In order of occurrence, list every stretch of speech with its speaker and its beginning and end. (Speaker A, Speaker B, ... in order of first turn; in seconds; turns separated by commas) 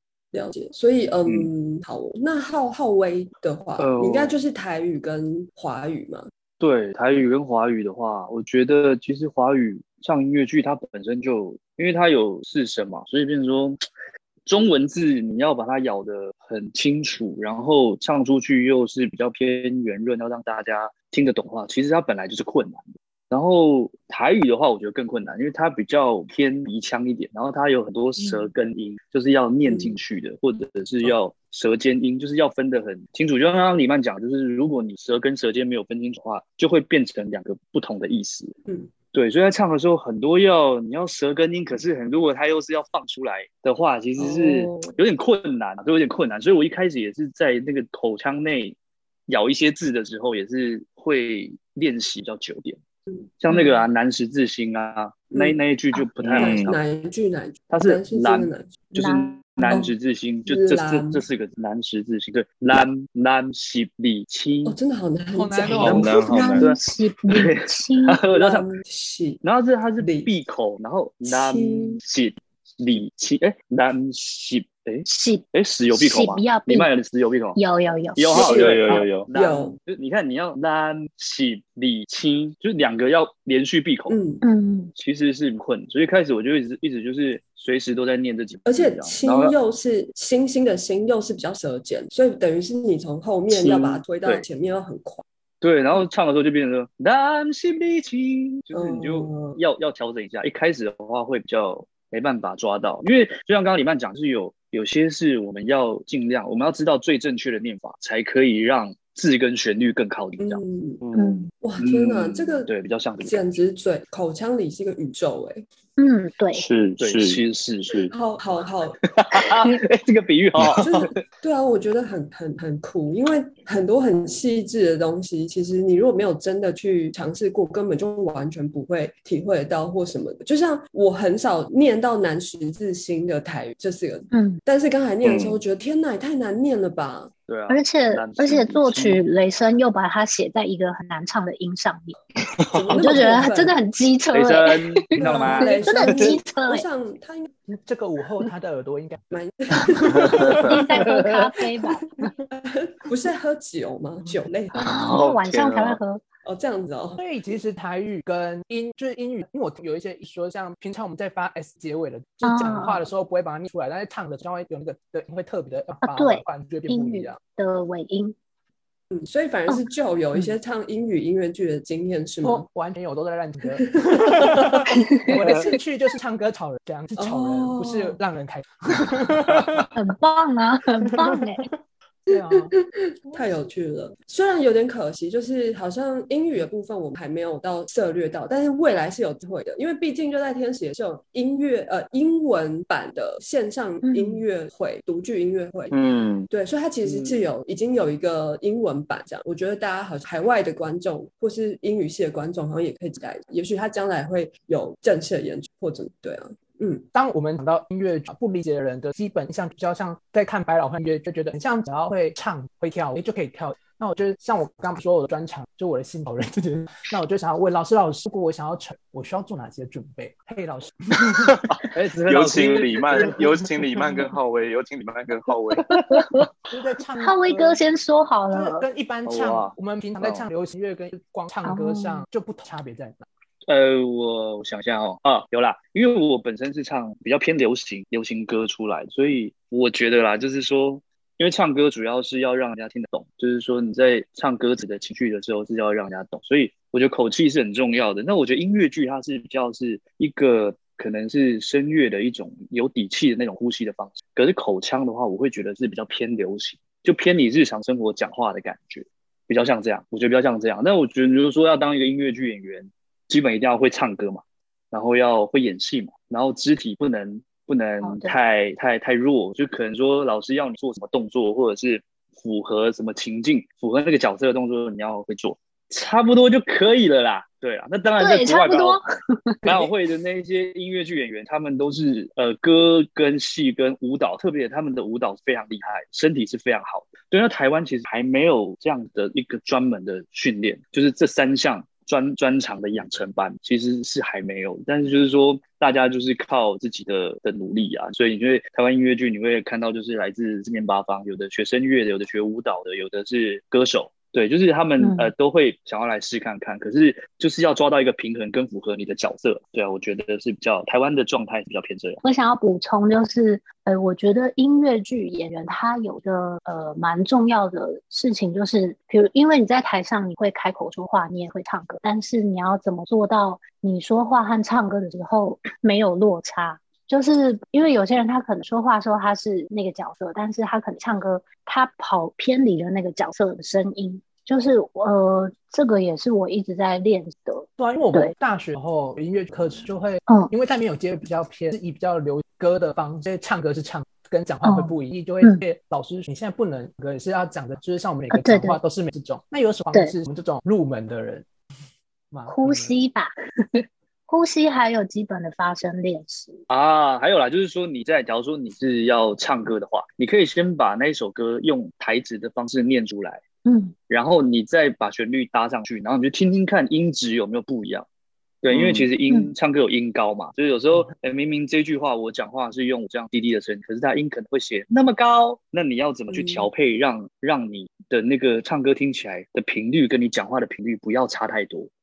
Speaker A: 0.3-6.3, Speaker B: 3.8-4.4, Speaker B: 6.6-13.8, Speaker B: 14.4-38.5, Speaker A: 29.7-30.0, Speaker B: 39.1-48.8, Speaker A: 44.1-45.0, Speaker B: 49.3-52.8, Speaker A: 53.1-53.7, Speaker B: 53.4-56.8, Speaker A: 55.3-55.6, Speaker C: 56.2-56.8, Speaker A: 56.3-58.7, Speaker B: 57.7-64.8, Speaker D: 59.0-59.8, Speaker A: 60.5-61.2, Speaker A: 64.7-66.6, Speaker E: 65.3-66.2, Speaker C: 65.7-66.7, Speaker D: 66.2-68.2, Speaker B: 66.6-68.7, Speaker A: 68.3-69.4, Speaker B: 69.4-77.6, Speaker A: 70.0-70.3, Speaker A: 71.2-72.0, Speaker D: 75.1-76.9, Speaker D: 77.5-78.4, Speaker B: 78.2-84.2, Speaker C: 78.3-79.3, Speaker A: 78.3-79.8, Speaker A: 84.1-84.4, Speaker D: 84.4-84.9, Speaker B: 85.0-89.5, Speaker A: 88.7-95.2, Speaker B: 93.5-94.5, Speaker B: 95.6-110.6, Speaker A: 98.7-99.6, Speaker A: 110.4-111.0, Speaker C: 111.0-111.5, Speaker D: 111.2-111.5, Speaker A: 111.6-115.7, Speaker B: 111.8-113.5, Speaker D: 116.0-116.6, Speaker C: 116.5-118.1, Speaker B: 117.0-118.0, Speaker A: 118.1-119.0, Speaker B: 119.2-121.1, Speaker A: 120.8-137.3, Speaker D: 134.3-134.6, Speaker C: 135.2-135.6, Speaker B: 137.5-139.2, Speaker D: 137.7-142.2, Speaker C: 142.7-143.1, Speaker A: 142.7-143.7, Speaker D: 142.9-146.8, Speaker B: 144.3-145.7, Speaker A: 145.2-147.5, Speaker E: 147.7-149.2, Speaker A: 149.3-150.6, Speaker E: 149.9-150.8, Speaker C: 150.2-150.7, Speaker D: 150.6-152.3, Speaker A: 152.5-154.9, Speaker D: 154.7-156.2, Speaker C: 154.7-156.0, Speaker A: 156.4-157.2, Speaker E: 157.2-167.4, Speaker D: 162.4-163.0, Speaker D: 166.0-168.3, Speaker A: 169.1-172.7, Speaker E: 172.4-179.9, Speaker A: 173.9-174.9, Speaker A: 177.2-178.2, Speaker D: 179.9-181.7, Speaker E: 181.0-181.7, Speaker E: 182.3-182.7, Speaker A: 182.3-195.9, Speaker D: 194.0-194.4, Speaker C: 195.9-196.5, Speaker A: 196.5-207.1, Speaker B: 197.0-197.4, Speaker E: 207.1-221.6, Speaker C: 221.6-226.1, Speaker B: 221.9-223.4, Speaker D: 225.9-226.5, Speaker E: 226.7-227.8, Speaker D: 227.2-228.8, Speaker E: 228.5-233.2, Speaker B: 229.2-230.4, Speaker D: 231.6-232.2, Speaker B: 233.7-279.0, Speaker D: 268.0-268.4, Speaker D: 278.2-279.9, Speaker B: 279.6-312.2, Speaker D: 305.0-305.3, Speaker D: 312.2-338.3, Speaker E: 337.8-351.5, Speaker D: 340.3-340.5, Speaker D: 344.6-345.6, Speaker D: 348.3-348.8, Speaker E: 352.3-352.9, Speaker D: 352.4-353.3, Speaker D: 354.3-356.6, Speaker B: 356.7-363.4, Speaker D: 363.6-363.9, Speaker B: 364.1-368.1, Speaker B: 368.6-381.9, Speaker C: 368.7-369.1, Speaker A: 376.3-376.7